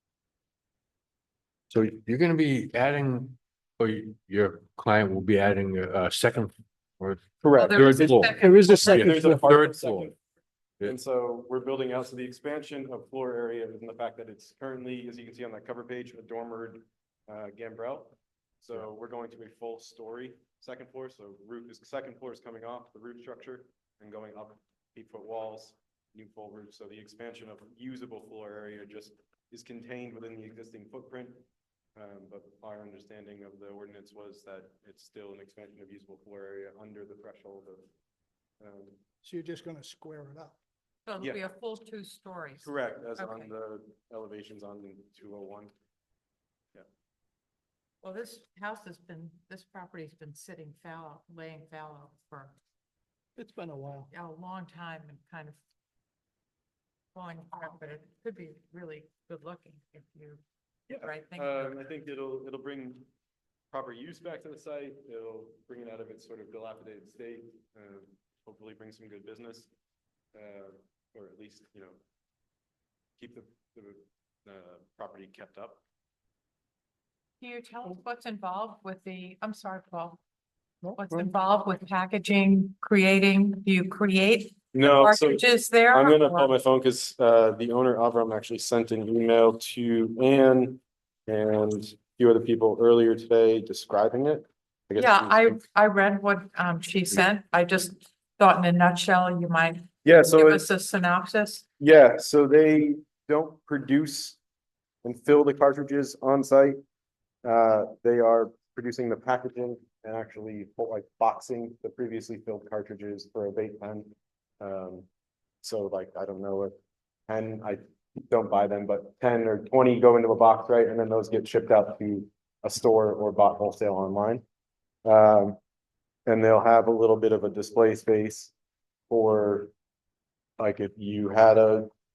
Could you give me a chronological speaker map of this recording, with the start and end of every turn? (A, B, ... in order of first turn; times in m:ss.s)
0:01.7-0:10.1 A
0:07.4-0:08.1 B
0:07.6-0:09.0 C
0:08.1-0:09.5 D
0:08.8-0:10.2 B
0:10.8-0:31.4 B
0:32.0-0:37.9 B
0:38.6-0:39.0 B
0:39.2-0:40.6 D
0:41.0-0:43.5 C
0:42.6-0:45.7 B
0:48.0-0:52.5 C
0:53.4-0:54.1 D
0:54.1-0:55.6 C
0:57.1-1:00.4 C
1:00.9-1:03.0 B
1:00.9-1:01.8 C
1:03.7-1:09.7 B
1:10.3-1:12.0 B
1:13.2-1:15.8 B
1:17.4-1:20.2 C
1:20.8-1:21.3 D
1:20.9-1:26.5 C
1:24.7-1:35.6 B
1:35.0-1:41.6 C
1:40.0-1:40.7 B
1:41.8-1:44.4 B
1:45.0-1:46.8 B
1:47.4-1:55.0 B
1:55.6-1:56.7 B
1:57.3-2:04.4 B
2:05.0-2:05.6 B
2:06.2-2:08.5 B
2:09.1-2:09.7 B
2:10.6-2:11.9 B